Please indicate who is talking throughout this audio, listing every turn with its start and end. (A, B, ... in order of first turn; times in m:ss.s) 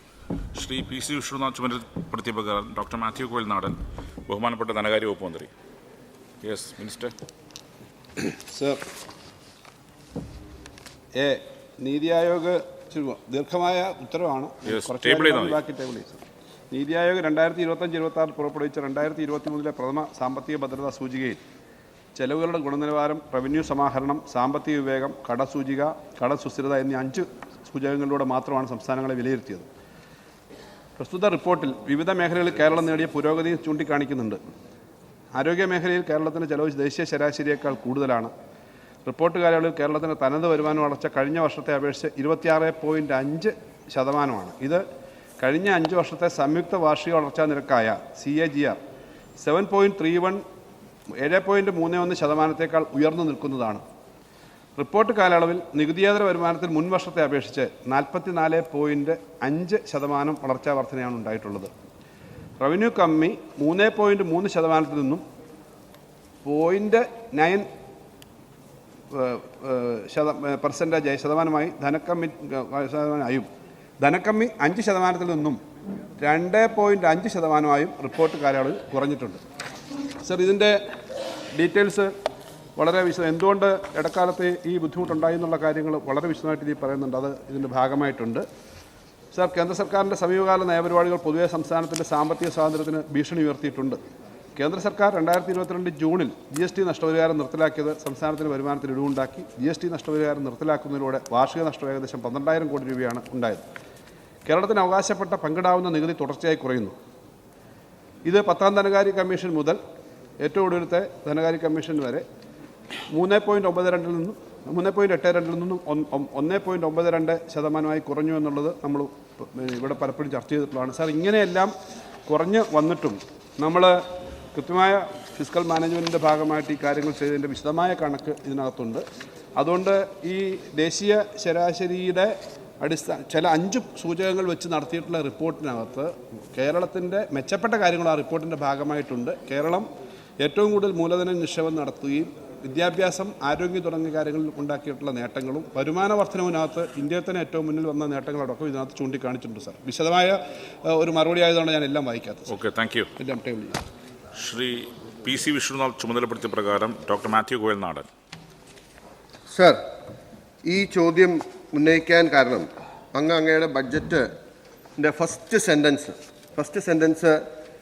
0:00.5-0:03.8 A
0:04.3-0:05.5 A
0:06.4-0:07.1 A
0:08.2-0:08.8 B
0:11.1-0:21.4 B
0:14.6-0:15.6 A
0:22.1-0:29.7 B
0:31.0-0:34.4 B
0:35.3-0:38.3 B
0:39.0-0:44.8 B
0:45.4-0:48.8 B
0:49.4-0:50.4 B
0:51.1-0:53.8 B
0:54.8-1:01.7 B
1:02.6-1:05.2 B
1:06.4-1:07.7 B
1:09.1-1:13.5 B
1:14.0-1:15.6 B
1:16.2-1:19.4 B
1:20.2-1:20.8 B
1:21.5-1:22.1 B
1:22.8-1:28.4 B
1:29.3-1:34.0 B
1:34.6-1:43.6 B
1:44.4-1:47.0 B
1:48.2-1:49.8 B
1:50.4-1:52.2 B
1:53.1-2:01.7 B
2:02.2-2:04.0 B
2:04.5-2:09.0 B
2:09.6-2:19.9 B
2:20.4-2:32.5 B
2:32.5-2:33.1 A
2:33.2-2:33.8 B
2:34.4-2:38.1 A
2:39.5-2:39.8 C
2:40.6-2:44.3 C
2:45.0-2:47.4 C